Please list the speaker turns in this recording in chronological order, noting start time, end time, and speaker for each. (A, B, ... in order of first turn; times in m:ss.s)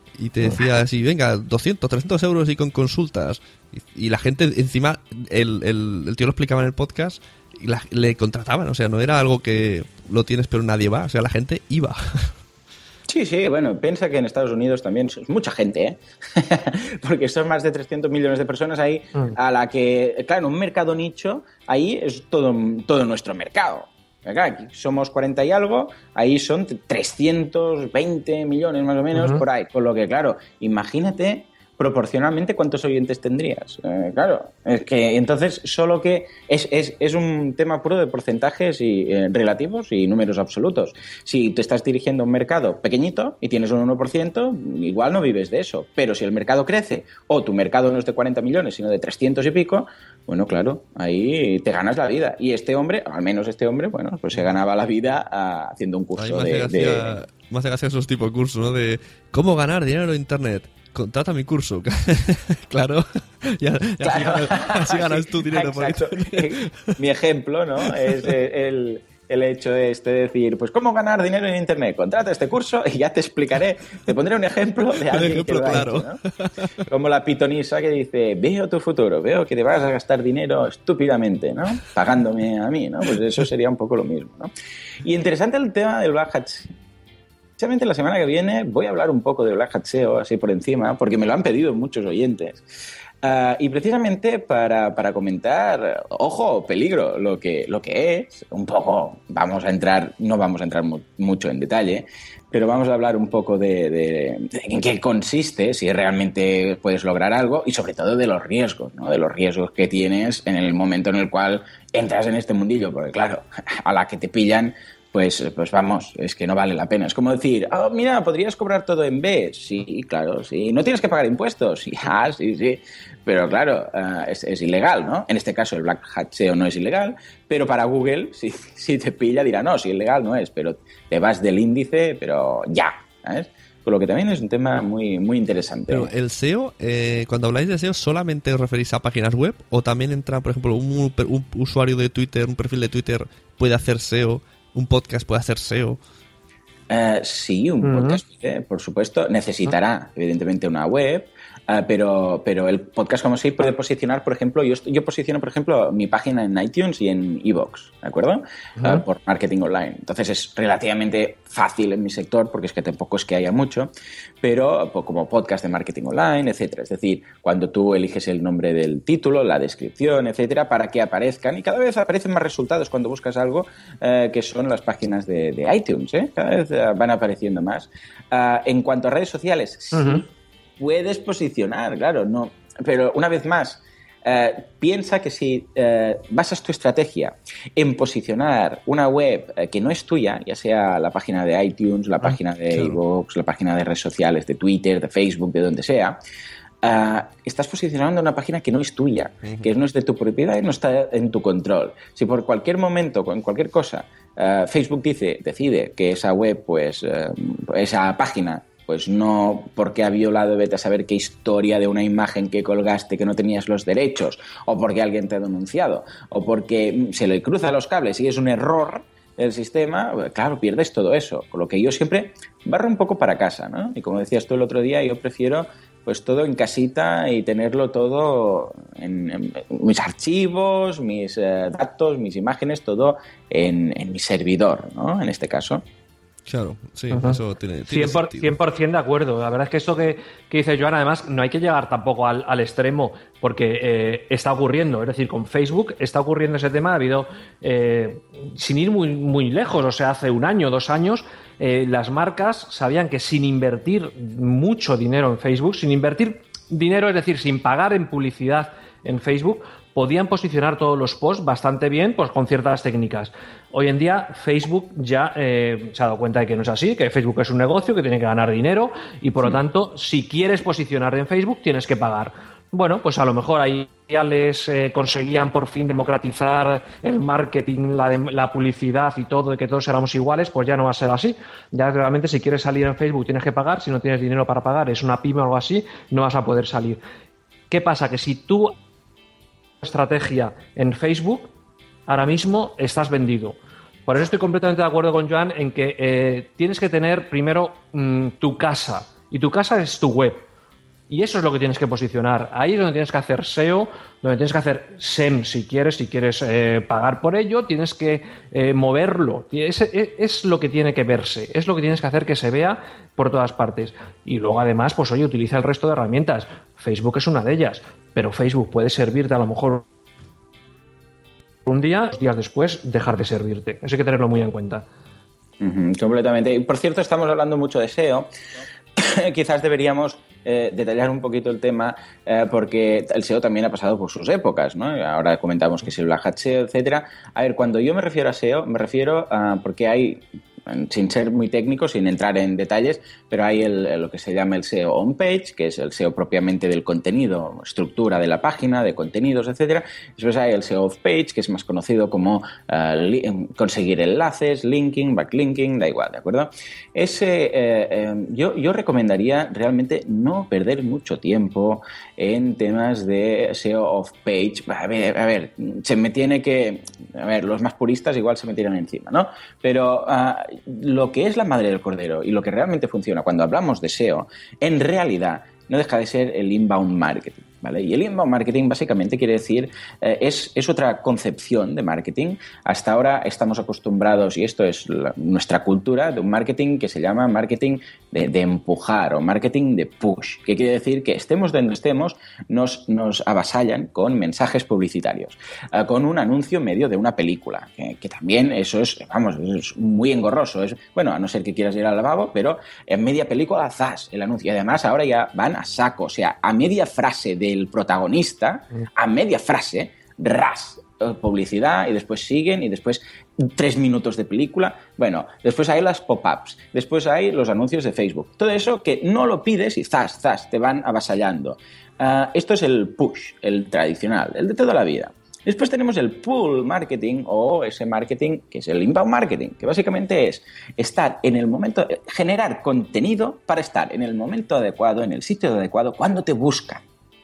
0:00.2-0:12.3 A
0:00.4-0:00.7 B
0:13.1-0:57.2 B
0:29.1-0:29.4 C
0:56.2-1:06.9 A
1:04.0-1:16.2 B
1:08.0-1:08.3 A
1:15.1-1:16.5 A
1:16.8-1:24.5 B
1:25.0-1:26.7 B
1:27.6-1:32.6 B
1:33.2-2:16.1 B
2:15.9-2:26.0 A
2:26.9-2:43.9 B
2:27.8-2:28.2 C
2:44.4-3:00.2 B
2:59.9-3:00.2 C
3:00.8-3:16.2 B
3:12.2-3:13.0 A
3:16.8-3:55.8 B
3:56.5-3:58.5 A
3:57.1-4:47.0 C
4:47.7-4:48.7 C
4:49.8-4:51.5 C
4:52.1-5:00.4 C
5:01.1-5:19.8 C
5:21.6-5:24.8 C
5:25.6-5:28.3 B
5:29.0-7:16.8 B